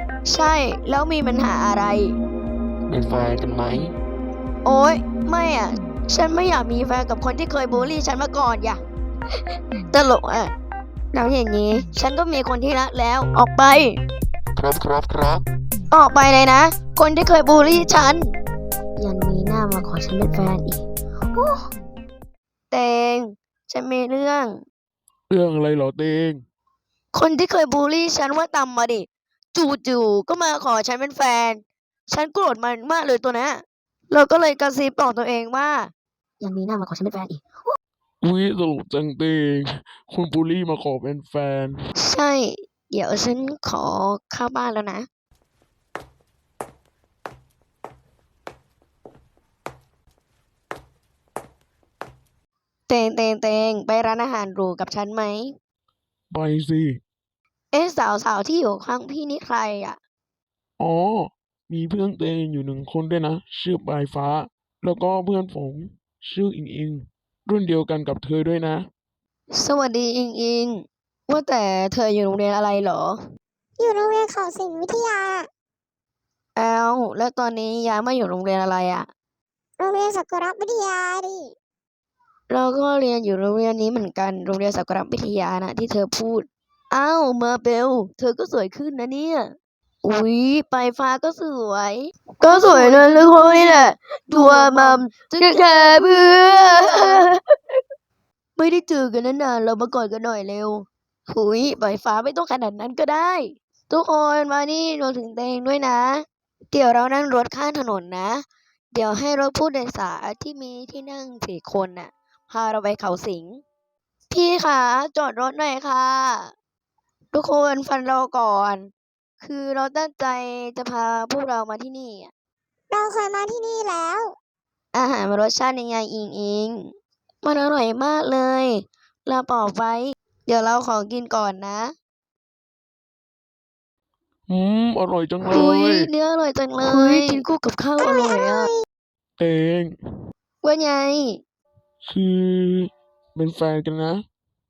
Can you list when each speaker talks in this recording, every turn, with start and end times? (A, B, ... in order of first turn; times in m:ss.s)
0:00.2-0:02.2 A
0:02.9-0:04.0 B
0:04.6-0:08.8 A
0:09.9-0:10.5 A
0:11.1-0:14.0 A
0:14.6-0:15.4 B
0:15.9-0:18.3 A
0:19.0-0:21.6 A
0:22.7-0:24.6 A
0:25.3-0:26.4 C
0:27.1-0:37.4 A
0:38.2-0:41.8 C
0:42.0-0:45.1 A
0:52.9-0:55.6 A
0:56.3-0:57.0 C
0:57.7-1:00.0 A
1:00.8-1:08.9 C
1:09.5-1:13.2 A
1:13.8-1:15.5 D
1:16.6-1:19.1 A
1:19.8-1:21.5 D
1:22.5-1:37.4 A
1:32.4-1:37.3 D
1:38.6-1:53.6 A
1:54.3-1:56.5 A
1:57.3-2:02.3 A
2:02.9-2:04.3 D
2:04.9-2:11.9 A
2:14.5-2:16.1 C
2:15.4-2:18.7 A
2:16.9-2:17.4 D
2:18.0-2:18.8 D
2:19.4-2:20.0 C
2:20.6-2:21.4 A
2:22.0-2:24.2 C